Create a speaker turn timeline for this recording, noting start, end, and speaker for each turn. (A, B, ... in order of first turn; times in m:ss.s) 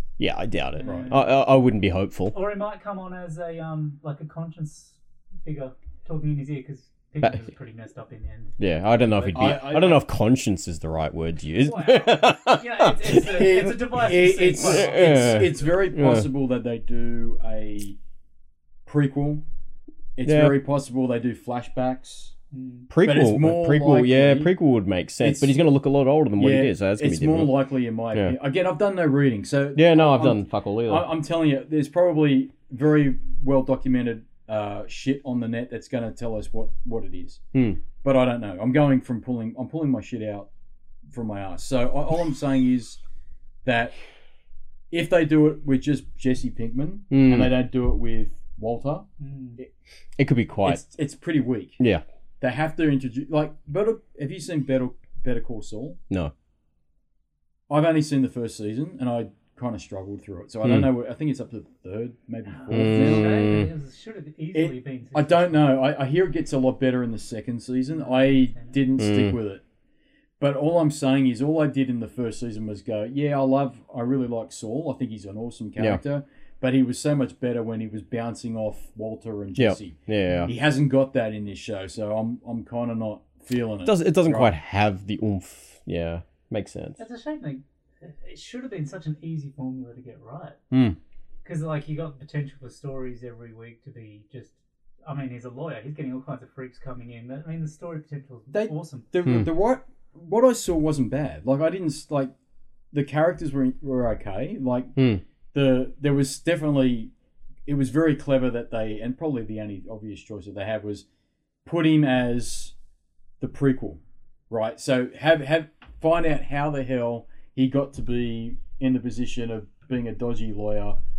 0:00.2-0:02.4 A
0:00.8-0:01.4 B
0:00.8-0:01.2 C
0:02.3-0:09.8 B
0:08.6-0:13.8 A
0:09.3-0:10.0 C
0:11.6-0:15.5 B
0:13.9-0:18.0 C
0:14.5-0:16.3 A
0:18.9-0:19.4 C
0:20.2-0:22.3 C
0:20.2-0:20.6 A
0:22.5-0:22.9 B
0:22.9-0:27.6 A
0:23.0-0:24.5 C
0:25.2-0:25.6 C
0:26.4-0:37.4 C
0:29.8-0:31.1 A
0:37.5-0:37.8 A
0:38.0-0:40.5 C
0:41.1-0:43.0 C
0:43.6-0:43.9 C
0:44.9-0:49.1 C
0:47.1-0:47.5 A
0:49.2-0:49.6 B
0:50.2-0:50.8 A
0:50.6-0:51.8 C
0:52.4-0:56.0 C
0:57.7-1:03.6 C
1:00.6-1:00.9 A
1:02.5-1:05.8 B
1:02.7-1:03.7 A
1:04.5-1:09.6 C
1:07.9-1:08.8 B
1:09.0-1:09.4 A
1:10.4-1:24.5 C
1:19.6-1:20.5 A
1:23.8-1:27.0 A
1:27.0-1:30.6 B
1:31.4-1:39.1 B
1:38.5-1:42.3 C
1:42.9-1:45.0 C
1:45.0-1:45.2 A
1:45.5-1:47.1 C
1:47.7-1:51.1 C
1:51.6-1:52.8 C
1:53.4-2:01.0 C